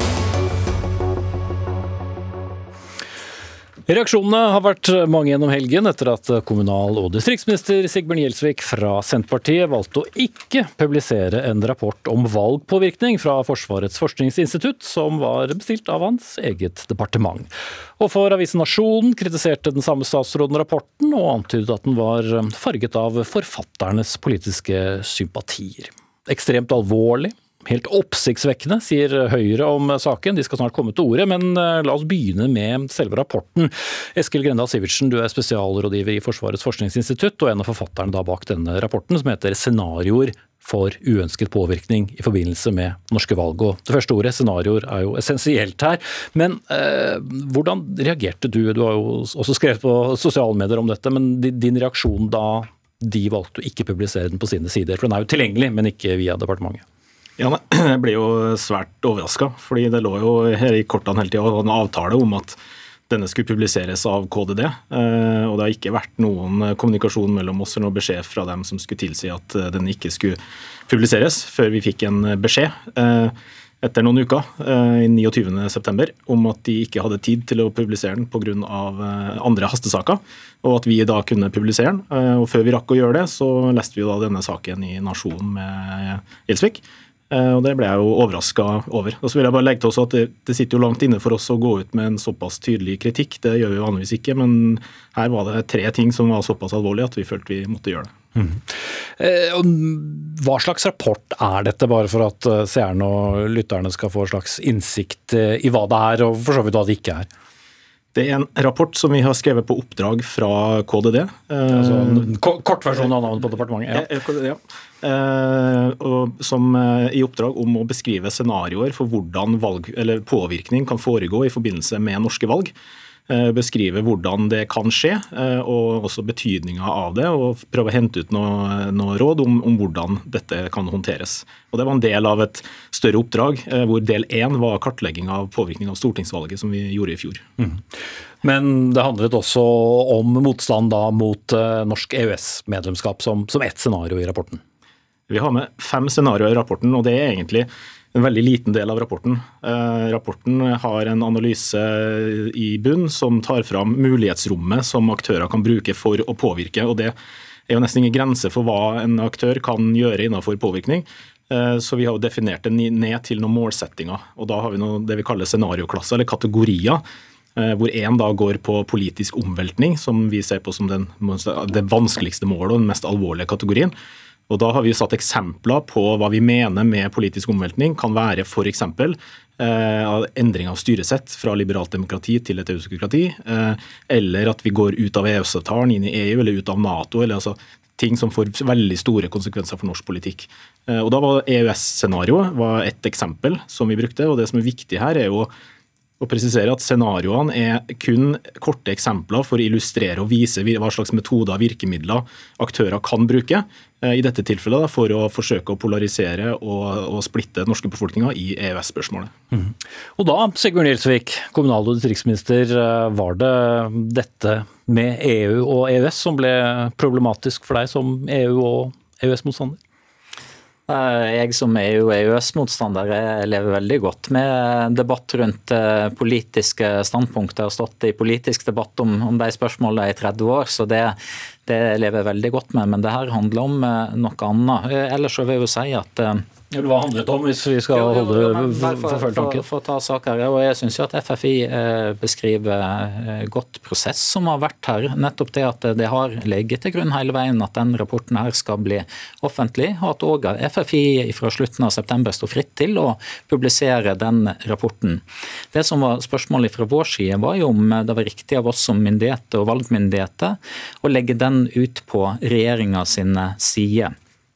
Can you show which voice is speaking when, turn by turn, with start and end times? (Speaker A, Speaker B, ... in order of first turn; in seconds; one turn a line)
Speaker A: 3.9-56.8
Speaker B: 57.4-62.6
Speaker B: 63.1-98.1
Speaker A: 98.4-107.3
Speaker B: 108.1-112.3
Speaker A: 111.7-114.1
Speaker B: 113.9-122.7
Speaker B: 123.3-137.4
Speaker A: 137.6-144.6
Speaker B: 145.3-157.2
Speaker B: 157.7-167.0
Speaker B: 167.6-173.9
Speaker B: 174.5-195.5
Speaker B: 196.2-209.3
Speaker A: 209.5-219.8
Speaker C: 220.9-236.5
Speaker A: 236.7-239.6
Speaker C: 237.9-264.1